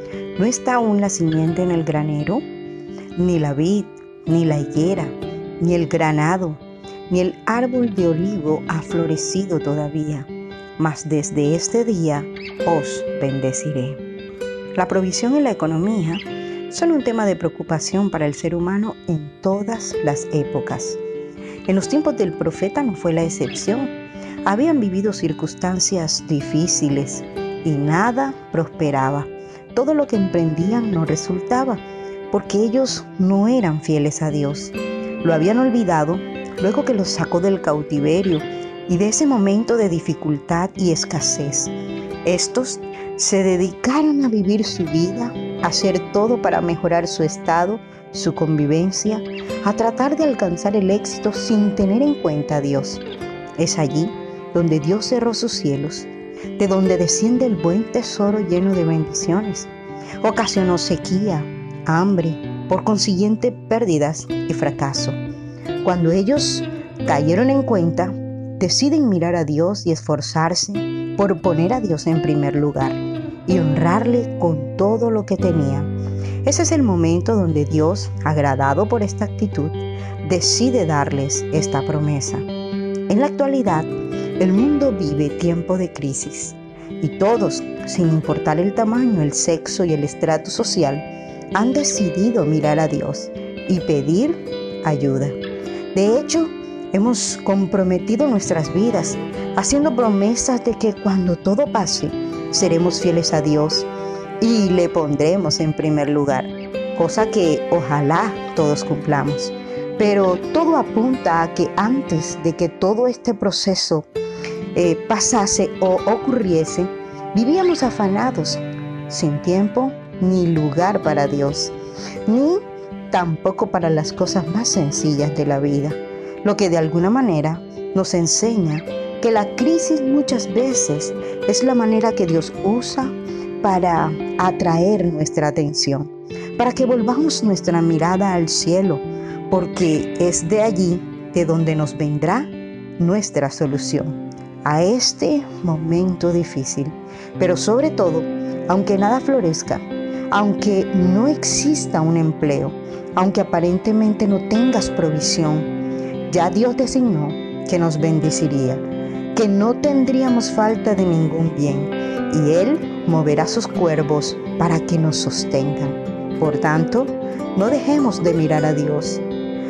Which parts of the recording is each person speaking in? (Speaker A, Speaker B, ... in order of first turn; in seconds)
Speaker A: 0.4-2.4, 3.2-14.0, 14.8-21.0, 21.7-23.9, 24.4-41.7, 42.3-53.0, 53.6-59.7, 60.2-65.2, 65.8-75.9, 76.4-82.5, 83.1-95.4, 95.9-103.9, 104.4-114.1, 114.8-121.7, 122.3-155.7, 156.3-158.8, 159.3-169.2